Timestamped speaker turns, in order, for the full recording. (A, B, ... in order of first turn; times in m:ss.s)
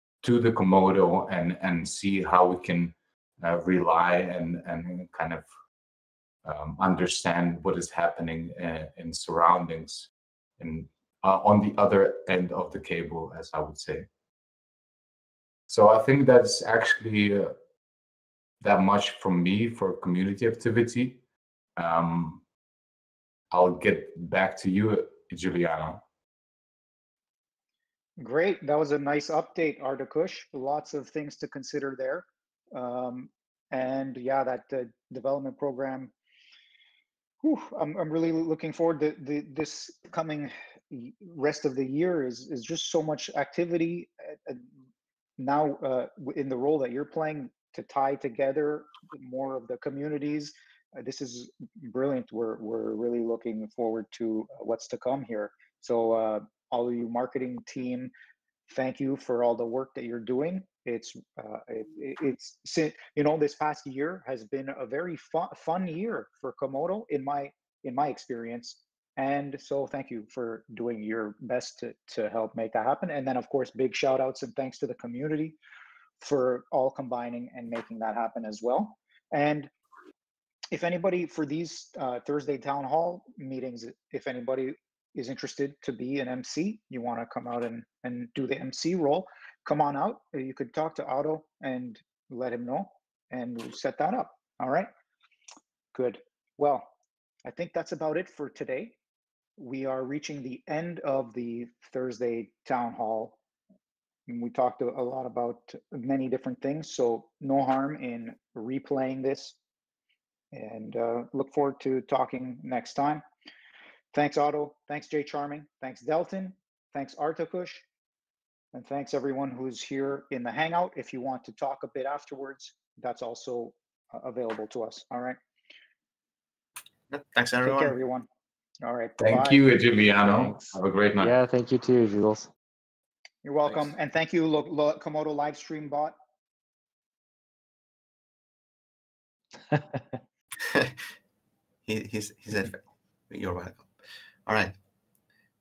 0:00.2-0:05.5 A
0:06.4-0:14.1 A
0:15.7-0:17.5 A
0:18.6-0:21.2 A
0:21.8-0:22.4 A
0:23.5-0:26.0 A
0:28.2-0:36.1 B
0:37.4-0:44.7 B
0:45.4-0:58.1 B
0:58.7-1:15.6 B
1:16.2-1:19.7 B
1:20.7-1:34.9 B
1:35.9-1:36.9 B
1:37.4-1:38.9 B
1:39.6-1:43.4 B
1:44.3-1:49.6 B
1:50.5-1:53.2 B
1:54.1-1:57.8 B
1:58.7-2:05.4 B
2:07.1-2:07.9 C
2:07.6-2:08.3 B
2:08.8-2:09.6 B
2:09.2-2:11.3 A
2:10.2-2:12.5 D
2:13.4-2:16.2 B
2:20.6-2:20.9 C
2:21.8-2:23.9 C
2:24.4-2:24.7 C